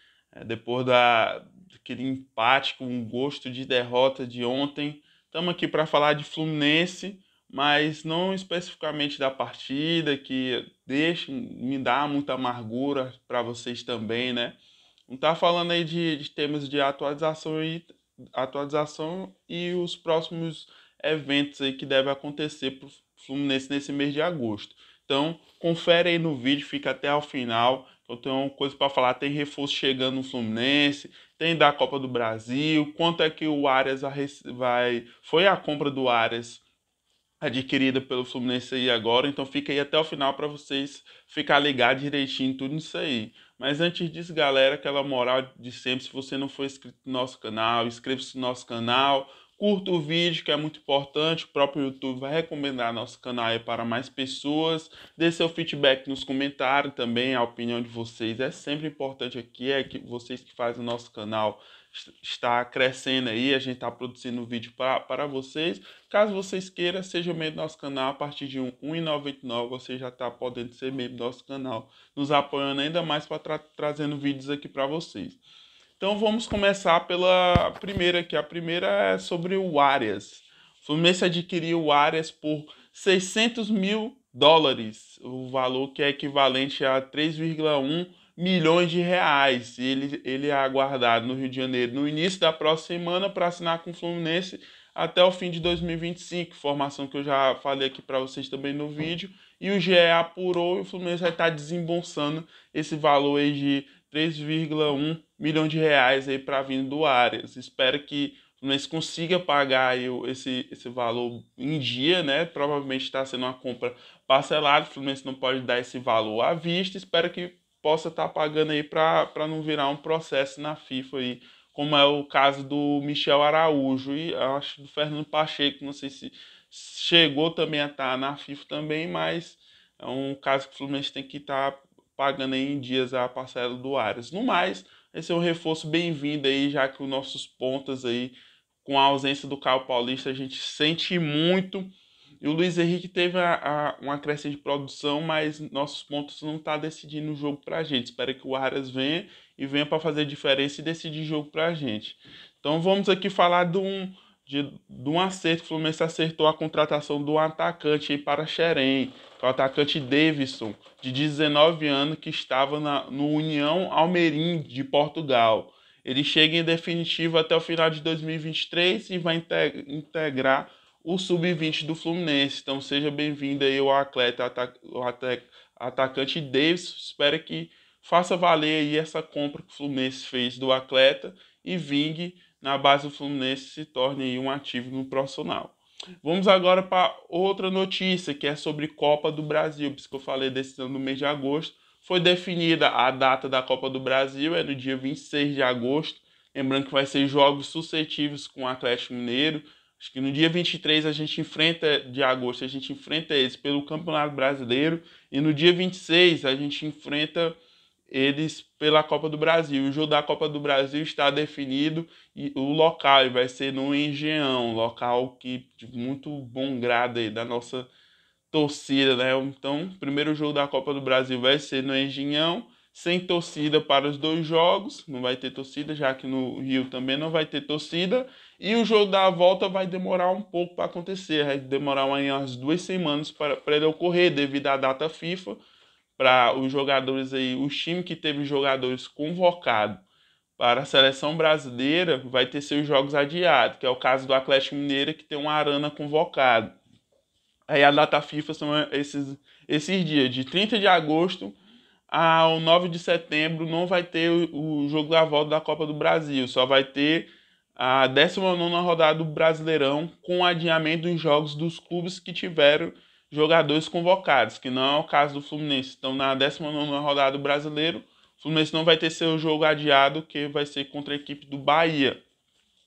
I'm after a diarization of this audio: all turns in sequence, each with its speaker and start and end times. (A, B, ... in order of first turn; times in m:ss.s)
0:00.3-0:36.6 A
0:37.4-1:15.4 A
1:16.0-3:27.6 A
3:28.1-3:37.9 A
3:38.5-3:55.6 A
3:56.2-4:00.0 A
4:00.6-4:06.8 A
4:07.7-4:11.6 A
4:12.1-4:32.2 A